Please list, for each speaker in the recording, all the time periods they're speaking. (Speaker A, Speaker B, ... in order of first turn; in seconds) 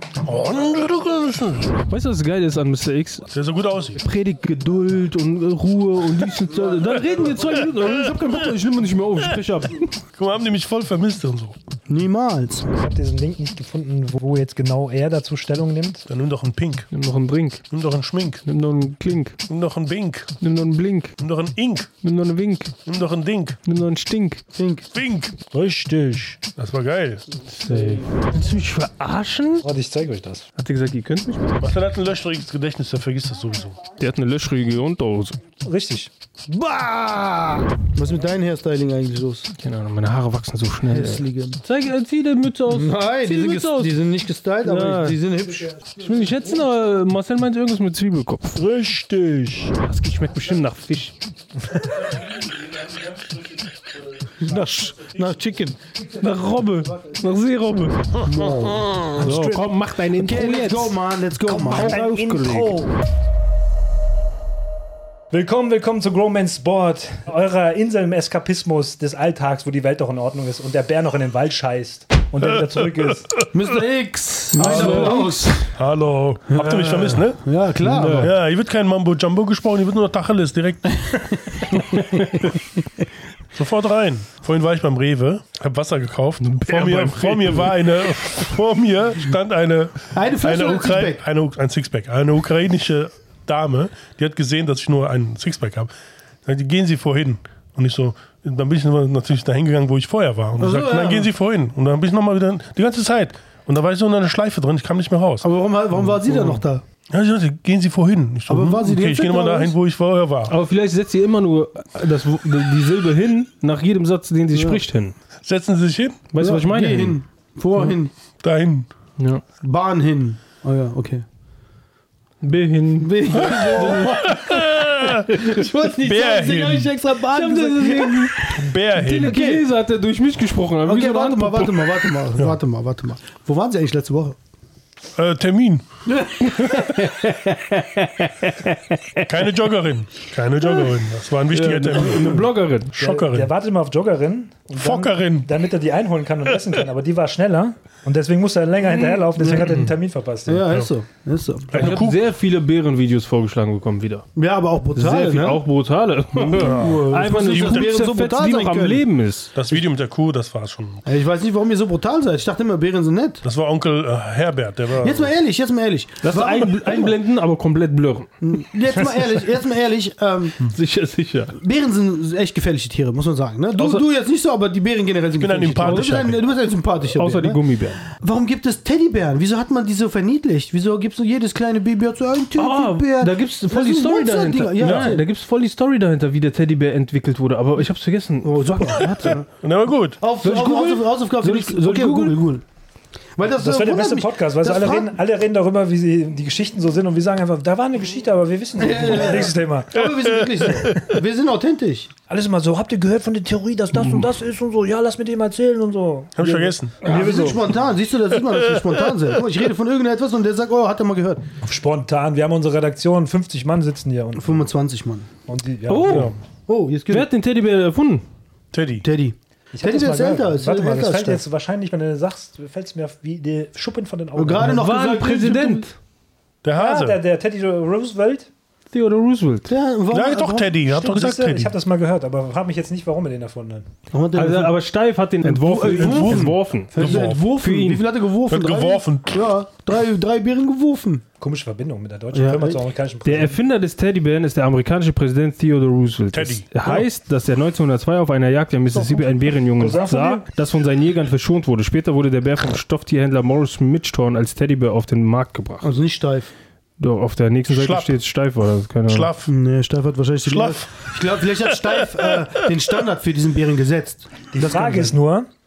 Speaker A: 0.2-1.8, 3.3-4.0, 10.2-11.6, 16.1-16.9, 17.7-18.4, 19.5-20.4, 21.2-21.9, 22.9-23.6, 24.9-25.4, 26.6-27.3, 31.6-33.8, 58.2-59.1, 74.6-75.1, 75.8-77.4, 78.2-82.5, 83.5-95.9, 96.5-105.5, 107.1-110.5, 115.4-116.2, 118.4-118.9, 123.8-126.9, 128.6-129.4, 135.2-135.9, 139.3-143.5, 144.8-145.5, 151.7-152.2, 156.4-157.9, 159.6-161.1, 163.4-165.3, 175.4-176.4, 189.5-190.2, 199.9-200.9, 206.4-207.0, 216.1-216.3, 218.7-219.1, 226.6-227.2, 230.1-231.7, 235.8-237.5, 238.5-239.5, 246.3-247.1, 257.7-258.1, 259.1-259.5, 260.4-261.1
Speaker B: 1.9-3.3, 4.0-10.0, 16.9-17.6, 18.5-19.4, 20.4-21.2, 22.0-22.8, 23.6-24.4, 27.4-29.7, 30.6-31.6, 34.0-35.4, 39.6-44.1, 44.6-45.2, 45.9-48.6, 49.8-51.2, 56.0-58.1, 59.1-61.0, 61.5-62.8, 74.5-75.5, 77.8-78.3, 86.4-87.8, 110.5-115.2, 116.3-117.2, 119.2-119.4, 122.4-124.4, 127.1-132.0, 136.6-137.5, 141.5-143.0, 149.0-149.5, 151.7-154.3, 154.9-159.5, 166.2-168.3, 170.6-171.6, 173.7-174.1, 175.8-176.4, 177.0-178.0, 182.6-189.4, 190.4-192.4, 215.9-216.3, 217.1-218.2, 224.6-225.9, 228.9-229.7, 234.3-238.1, 243.2-255.9, 257.0-259.3
Speaker C: 11.9-12.7, 24.5-24.9, 36.5-39.5, 40.9-41.6, 42.7-45.8, 54.4-55.8, 58.2-59.5, 60.1-62.0, 73.5-75.8, 76.5-78.3, 90.1-91.2, 100.6-101.3, 105.4-106.8, 108.5-109.7, 114.5-114.8, 116.4-118.1, 119.6-121.2, 123.0-124.4, 125.2-129.6, 130.8-134.4, 136.1-137.9, 149.4-149.8, 150.5-151.8, 154.4-155.6, 156.6-159.1, 161.1-163.4, 165.0-167.1, 168.4-170.6, 171.6-177.6, 178.1-185.3, 188.4-189.5, 190.2-192.6, 193.4-195.1, 198.8-202.1, 207.0-211.4, 214.4-215.3, 216.7-217.3, 219.0-221.4, 224.4-225.9, 229.7-230.7, 234.1-234.8, 235.4-241.2, 242.3-242.8, 248.9-249.2, 255.8-256.5, 259.4-265.2
Speaker D: 12.7-16.1, 25.5-26.4, 29.6-30.5, 35.6-36.1, 45.8-46.5, 48.6-49.8, 54.5-54.9, 59.2-59.6, 61.5-63.0, 65.3-73.5, 74.6-75.3, 143.0-150.7, 193.5-199.9, 202.3-207.7, 211.6-214.7, 215.5-216.3, 219.7-224.8, 226.8-228.5, 230.9-233.9, 241.4-243.6, 249.8-250.4, 264.5-265.5